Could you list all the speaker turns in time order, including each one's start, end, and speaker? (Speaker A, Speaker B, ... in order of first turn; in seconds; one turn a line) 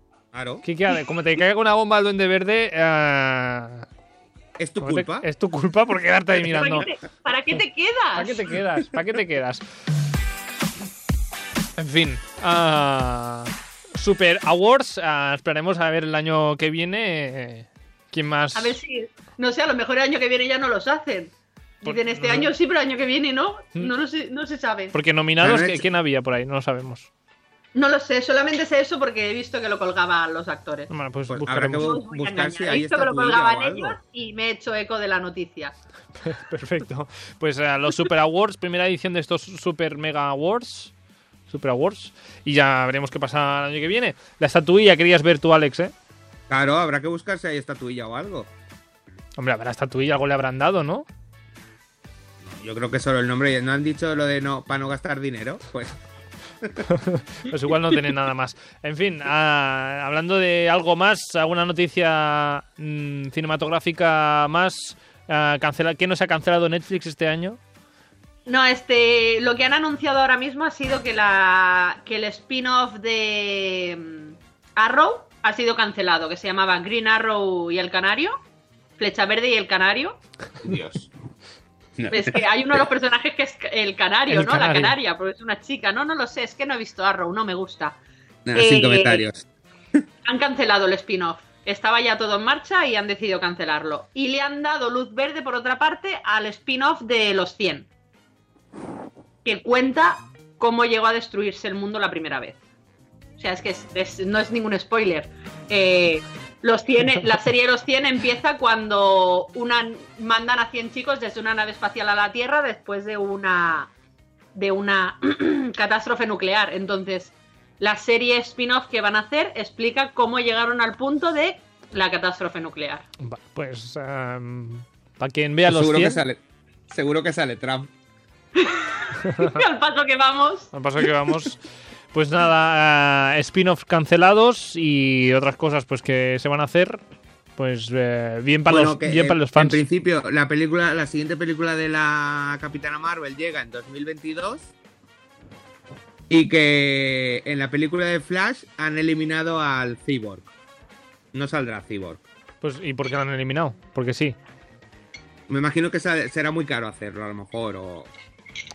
Speaker A: 0.3-0.6
Speaker B: 0.6-3.9
Speaker A: 4.6-5.2
Speaker B: 4.8-6.9
Speaker C: 6.5-8.4
Speaker B: 8.1-9.6
Speaker B: 11.8-18.7
Speaker C: 18.5-24.9
Speaker B: 21.8-22.5
Speaker B: 24.9-27.1
Speaker A: 25.4-25.8
Speaker C: 27.7-30.9
Speaker B: 30.9-31.9
Speaker A: 31.3-34.0
Speaker C: 31.8-35.7
Speaker B: 36.2-40.9
Speaker B: 41.5-45.9
Speaker A: 46.5-48.5
Speaker B: 49.4-51.1
Speaker A: 52.4-56.0
Speaker B: 56.9-67.6
Speaker C: 68.5-78.4
Speaker C: 79.0-80.2
Speaker A: 80.6-81.1
Speaker A: 82.0-82.4
Speaker C: 82.1-88.0
Speaker B: 84.3-84.9
Speaker A: 88.5-89.4
Speaker C: 88.5-89.3
Speaker C: 90.2-97.9
Speaker C: 99.4-102.6
Speaker C: 103.4-113.9
Speaker C: 114.5-123.0
Speaker B: 123.2-126.2
Speaker A: 125.7-127.9
Speaker C: 128.6-130.7
Speaker B: 129.2-129.5
Speaker B: 130.7-131.6
Speaker B: 132.1-137.0
Speaker B: 137.6-139.8
Speaker A: 138.7-144.7
Speaker A: 146.3-150.5
Speaker A: 151.3-152.2
Speaker B: 152.6-154.3
Speaker A: 155.5-158.1